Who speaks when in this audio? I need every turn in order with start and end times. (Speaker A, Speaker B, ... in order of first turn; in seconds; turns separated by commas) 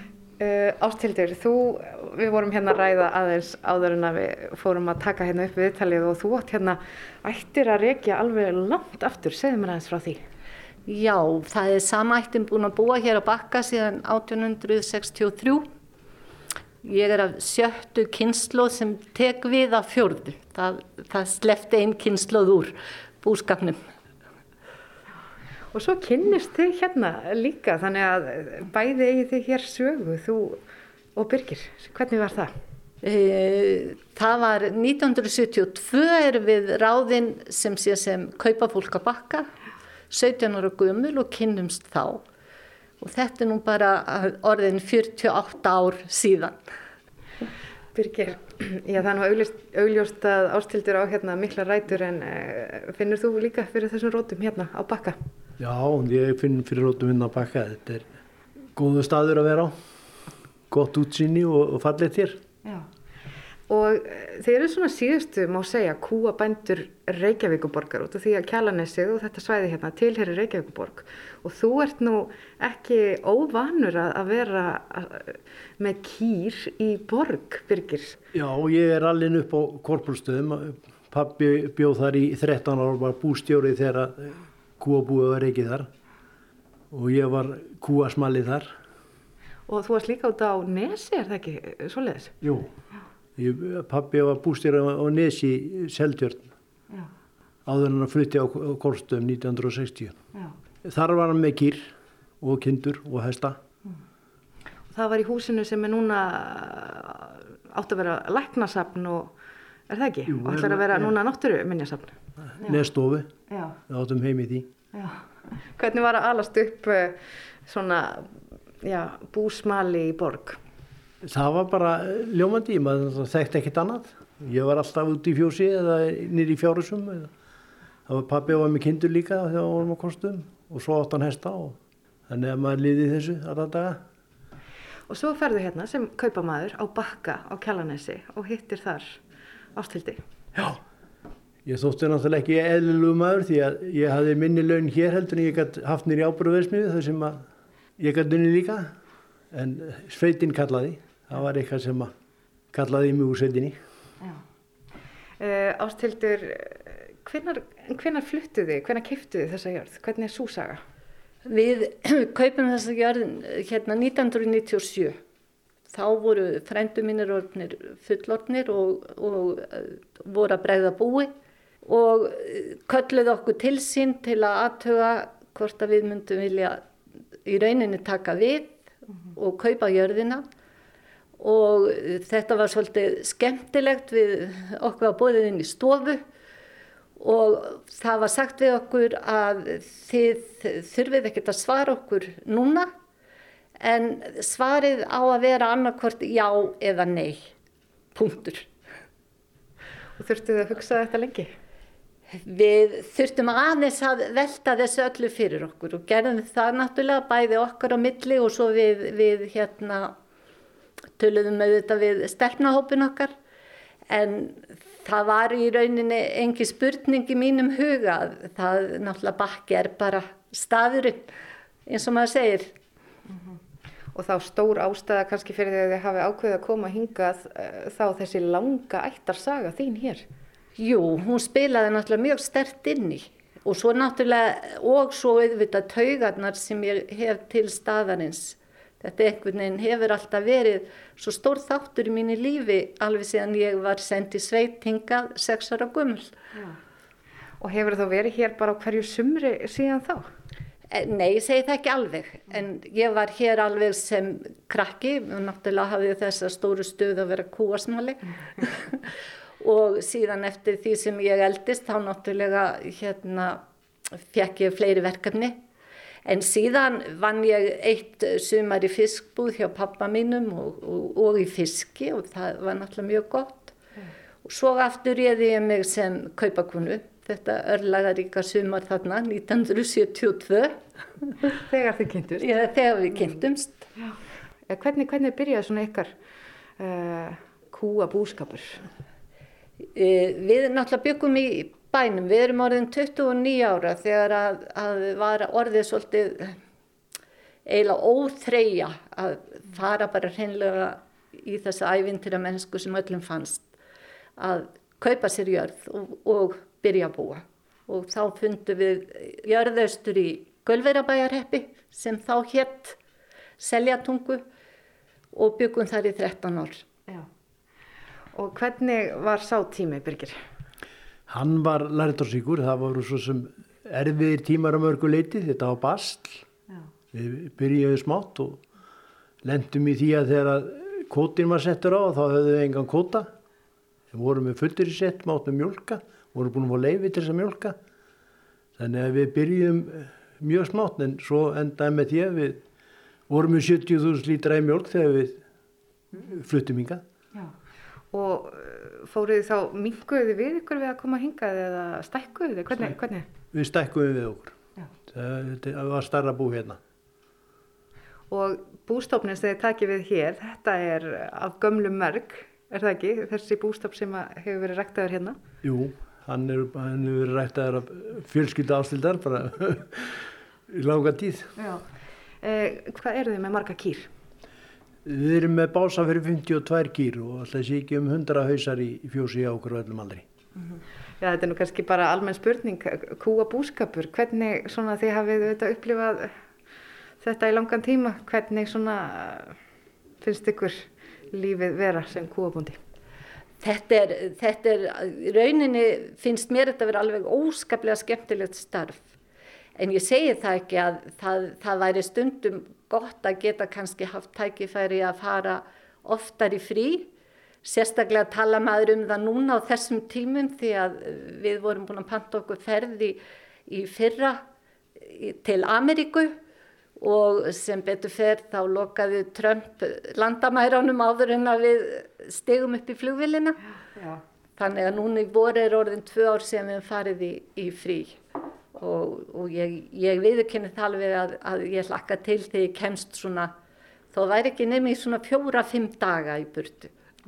Speaker A: 0.4-10.2, Speaker B: 10.9-15.7, Speaker B: 16.8-23.9, Speaker A: 25.7-30.6, Speaker A: 31.1-32.5, Speaker B: 33.0-39.5, Speaker B: 40.1-42.2, Speaker B: 43.0-46.6, Speaker A: 48.0-55.2, Speaker C: 55.6-58.1, Speaker C: 58.8-59.8, Speaker C: 60.7-62.4, Speaker A: 63.7-78.2, Speaker C: 78.3-85.9, Speaker C: 86.9-88.7, Speaker A: 89.7-92.3, Speaker C: 92.4-92.7, Speaker C: 93.4-96.5, Speaker C: 97.7-100.2, Speaker C: 100.8-103.6, Speaker A: 104.9-109.3, Speaker A: 109.9-112.8, Speaker C: 110.3-111.1, Speaker C: 112.6-113.3, Speaker A: 113.5-113.8, Speaker C: 113.9-114.7, Speaker A: 114.9-118.3, Speaker A: 118.8-120.6, Speaker C: 121.2-127.3, Speaker C: 128.1-131.8, Speaker C: 132.3-134.0, Speaker A: 135.1-139.2, Speaker A: 139.7-140.2, Speaker C: 140.6-140.8, Speaker C: 141.7-147.4, Speaker C: 148.0-148.9, Speaker C: 149.5-152.1, Speaker C: 152.7-153.8, Speaker A: 155.4-160.8, Speaker B: 161.5-165.2, Speaker B: 165.9-171.3, Speaker B: 171.8-176.8, Speaker B: 177.5-178.8, Speaker B: 179.3-180.4, Speaker B: 181.4-186.2, Speaker B: 187.2-192.9, Speaker B: 193.8-197.5, Speaker B: 198.2-198.7, Speaker A: 200.2-201.5, Speaker B: 202.4-210.2, Speaker B: 211.2-213.3, Speaker B: 214.1-221.3, Speaker B: 221.9-222.7, Speaker A: 224.1-230.2, Speaker B: 230.8-246.3, Speaker A: 247.6-250.3, Speaker B: 250.9-259.0, Speaker B: 259.6-263.6, Speaker B: 264.2-265.6, Speaker B: 266.2-273.8, Speaker B: 274.4-280.8, Speaker A: 281.5-282.6, Speaker B: 282.4-283.9, Speaker A: 284.7-286.1, Speaker A: 286.8-288.8, Speaker B: 290.0-296.6, Speaker B: 297.7-303.7, Speaker B: 304.4-313.0, Speaker B: 313.6-314.4, Speaker B: 315.3-316.9, Speaker A: 318.3-320.4, Speaker C: 321.3-326.4, Speaker C: 327.1-328.6, Speaker C: 329.4-333.3, Speaker C: 334.1-337.8, Speaker C: 338.8-342.6, Speaker C: 343.3-345.4, Speaker C: 346.2-347.0, Speaker A: 348.1-353.3, Speaker C: 353.5-354.6, Speaker C: 355.1-356.8, Speaker A: 358.3-365.4, Speaker C: 365.6-371.5, Speaker A: 371.6-371.9, Speaker A: 372.4-374.1, Speaker C: 375.1-380.3, Speaker A: 380.6-386.3, Speaker A: 387.2-389.6, Speaker A: 390.2-392.8, Speaker B: 393.6-399.1, Speaker B: 399.8-407.1, Speaker B: 407.6-414.4, Speaker B: 415.0-416.4, Speaker B: 417.0-423.6, Speaker B: 424.6-428.2, Speaker B: 428.7-433.5, Speaker B: 434.1-436.9